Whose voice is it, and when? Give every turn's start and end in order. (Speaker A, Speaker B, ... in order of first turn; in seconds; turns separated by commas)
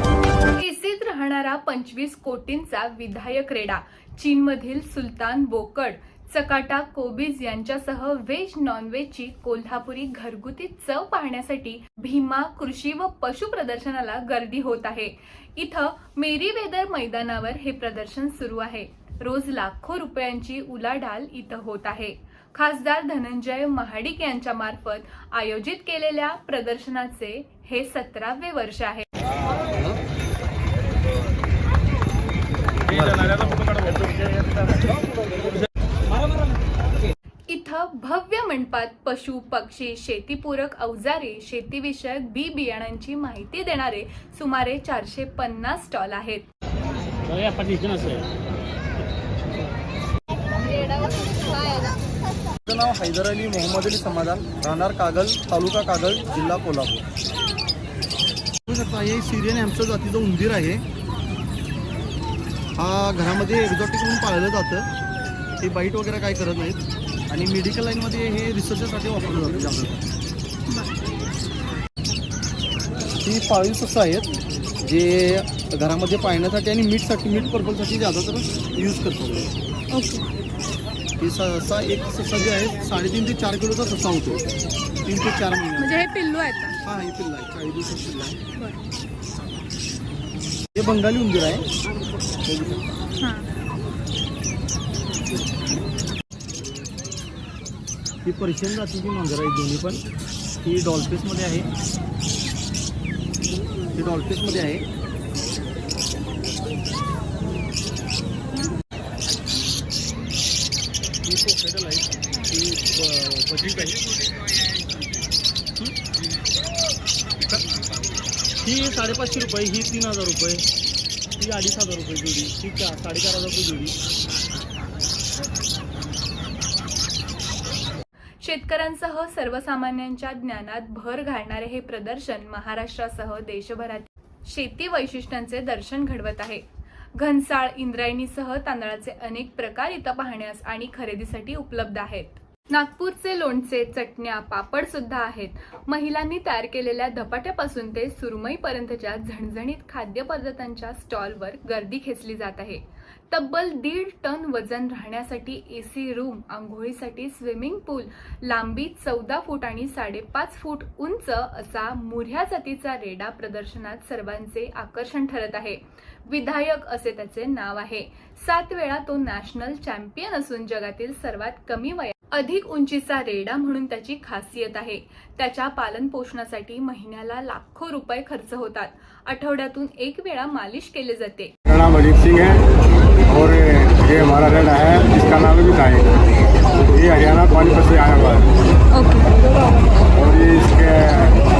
Speaker A: 0.6-29.1, Speaker B: 32.9-33.5, Speaker A: 37.5-46.5, Speaker B: 47.3-48.2, Speaker B: 52.6-57.1, Speaker B: 58.7-60.8, Speaker B: 62.8-64.9, Speaker B: 65.6-70.0, Speaker B: 73.2-79.5, Speaker A: 79.9-80.2, Speaker B: 81.2-84.5, Speaker B: 85.0-86.0, Speaker A: 85.8-86.8, Speaker B: 86.8-88.4, Speaker A: 88.5-88.8, Speaker B: 90.7-91.7, Speaker B: 92.4-92.8, Speaker A: 93.2-93.5, Speaker B: 98.2-100.0, Speaker B: 100.6-101.7, Speaker B: 103.9-104.8, Speaker B: 111.2-114.1, Speaker B: 118.6-120.6, Speaker B: 121.4-123.9, Speaker A: 128.4-136.6, Speaker A: 137.2-181.5, Speaker C: 181.7-182.6, Speaker C: 183.3-186.1, Speaker C: 186.9-188.5, Speaker A: 188.9-189.3, Speaker C: 190.2-191.4